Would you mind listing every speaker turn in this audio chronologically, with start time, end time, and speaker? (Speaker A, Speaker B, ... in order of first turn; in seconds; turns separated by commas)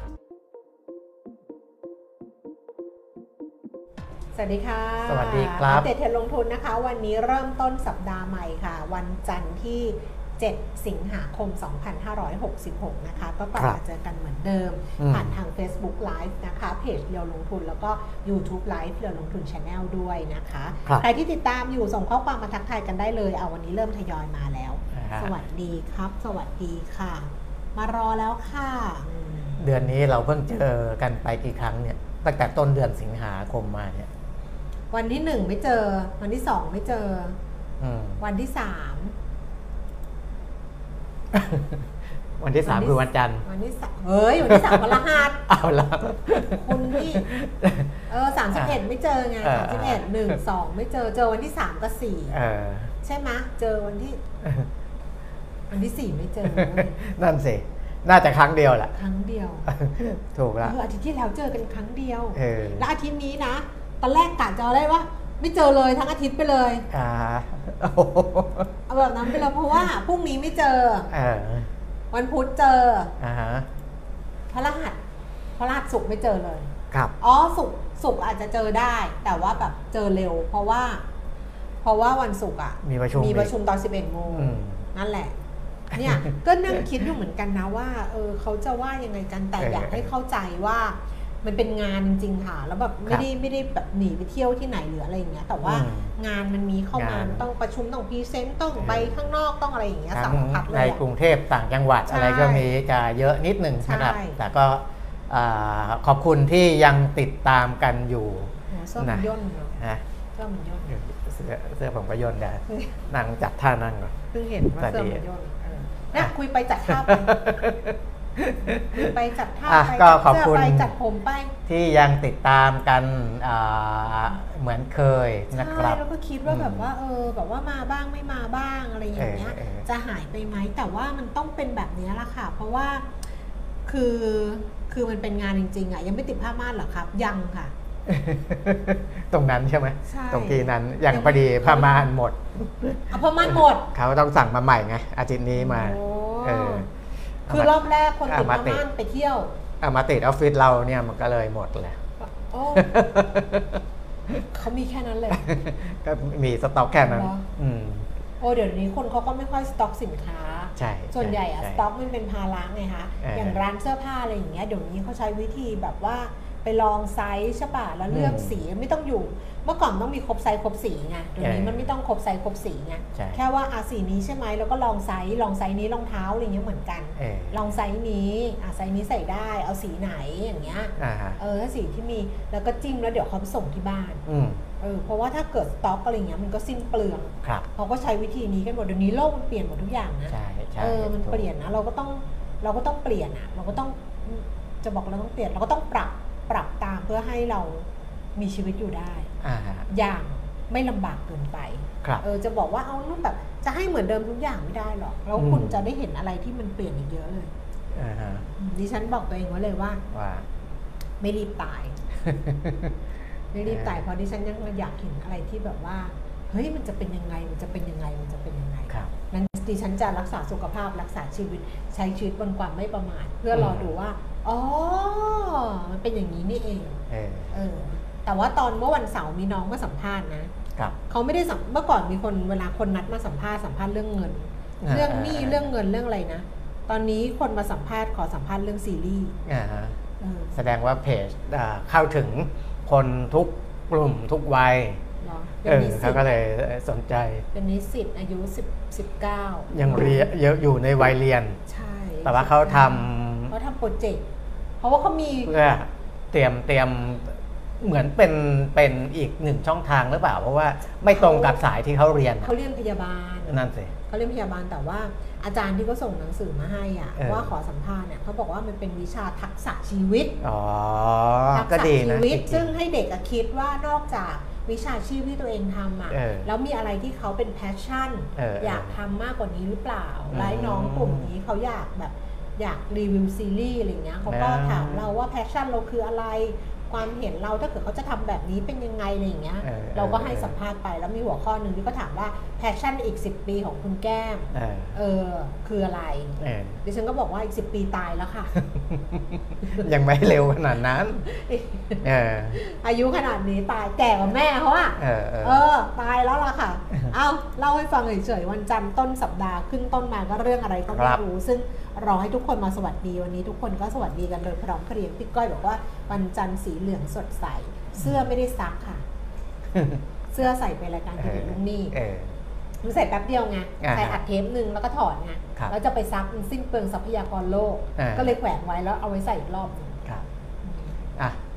Speaker A: 4.3-29.6, Speaker B: 5.1-5.9, Speaker B: 15.0-15.4, Speaker B: 24.9-25.4, Speaker B: 29.6-34.1, Speaker A: 34.9-37.4, Speaker B: 37.8-38.2, Speaker A: 38.2-39.1, Speaker B: 41.3-41.8, Speaker B: 42.4-43.4, Speaker A: 42.6-45.4, Speaker B: 44.4-48.0, Speaker A: 46.5-47.3, Speaker A: 48.1-52.4, Speaker B: 49.4-50.4, Speaker B: 52.3-52.9, Speaker A: 53.0-54.2, Speaker A: 55.7-57.0, Speaker B: 56.4-58.9, Speaker A: 58.9-59.7, Speaker B: 59.7-60.8, Speaker A: 60.6-66.9, Speaker B: 62.4-62.9, Speaker B: 66.9-68.7, Speaker A: 68.9-71.1, Speaker B: 69.3-69.9, Speaker B: 71.1-71.7, Speaker A: 72.1-73.1, Speaker B: 73.2-73.7, Speaker A: 74.5-75.0, Speaker A: 75.6-81.0, Speaker A: 81.8-85.3, Speaker B: 82.8-83.5, Speaker B: 84.3-84.8, Speaker A: 85.9-101.0, Speaker B: 89.6-90.1, Speaker B: 95.6-96.1, Speaker B: 96.9-97.4, Speaker B: 98.8-99.3, Speaker B: 100.1-110.0, Speaker A: 102.1-102.7, Speaker A: 103.8-104.4, Speaker A: 108.7-109.8, Speaker A: 110.3-110.9, Speaker B: 110.9-114.1, Speaker A: 112.7-113.0, Speaker A: 114.3-117.4, Speaker B: 114.8-115.2, Speaker B: 116.9-119.1, Speaker A: 118.6-121.5, Speaker B: 119.7-120.9, Speaker B: 121.7-126.9, Speaker A: 125.5-133.1, Speaker B: 129.2-129.8, Speaker A: 133.9-137.7, Speaker B: 138.1-146.9, Speaker A: 140.1-142.1, Speaker A: 143.1-143.9, Speaker A: 145.5-146.9, Speaker B: 147.5-147.7, Speaker A: 147.5-149.5, Speaker B: 148.2-148.8, Speaker B: 149.8-152.0, Speaker A: 152.2-153.1, Speaker B: 152.7-154.4, Speaker A: 154.5-155.5, Speaker B: 155.3-158.1, Speaker A: 156.9-157.5, Speaker A: 158.4-184.2, Speaker B: 160.8-161.8, Speaker B: 163.2-163.6, Speaker B: 168.1-168.6, Speaker B: 171.4-171.9, Speaker B: 173.2-173.4, Speaker B: 177.2-177.8, Speaker B: 181.0-181.4, Speaker B: 184.3-184.6, Speaker A: 184.8-199.3, Speaker B: 190.3-191.5, Speaker B: 199.4-199.9, Speaker A: 199.9-207.5, Speaker B: 205.4-205.8, Speaker B: 207.9-208.5, Speaker A: 208.6-210.0, Speaker B: 210.1-210.5, Speaker A: 211.2-212.0, Speaker B: 212.2-212.9, Speaker A: 213.5-230.5, Speaker B: 213.6-214.0, Speaker B: 223.5-223.9, Speaker B: 227.1-227.5, Speaker A: 231.1-239.4, Speaker B: 234.8-235.7, Speaker B: 239.5-240.0, Speaker A: 240.2-240.6, Speaker B: 240.5-245.0, Speaker A: 245.2-246.2, Speaker B: 245.7-247.4, Speaker A: 247.5-250.2, Speaker B: 249.7-251.6, Speaker A: 251.7-254.2, Speaker B: 252.2-253.5, Speaker A: 254.8-255.5, Speaker B: 255.5-262.5, Speaker A: 261.1-261.6, Speaker A: 262.4-270.4, Speaker B: 263.5-263.9, Speaker B: 267.2-267.5, Speaker B: 270.4-272.8, Speaker A: 271.5-298.5, Speaker B: 276.1-276.5, Speaker B: 278.4-278.9, Speaker B: 280.3-281.3, Speaker B: 284.3-285.1, Speaker B: 289.6-290.6, Speaker B: 294.5-294.9, Speaker B: 296.4-296.8, Speaker B: 298.7-301.3, Speaker A: 301.2-319.0, Speaker B: 302.0-302.6, Speaker B: 305.0-305.7, Speaker B: 310.9-311.2, Speaker B: 318.0-318.3, Speaker B: 319.7-320.0, Speaker A: 320.3-322.0, Speaker B: 321.2-322.3, Speaker A: 322.8-330.1, Speaker B: 323.8-324.2, Speaker B: 328.0-328.4, Speaker A: 330.6-330.9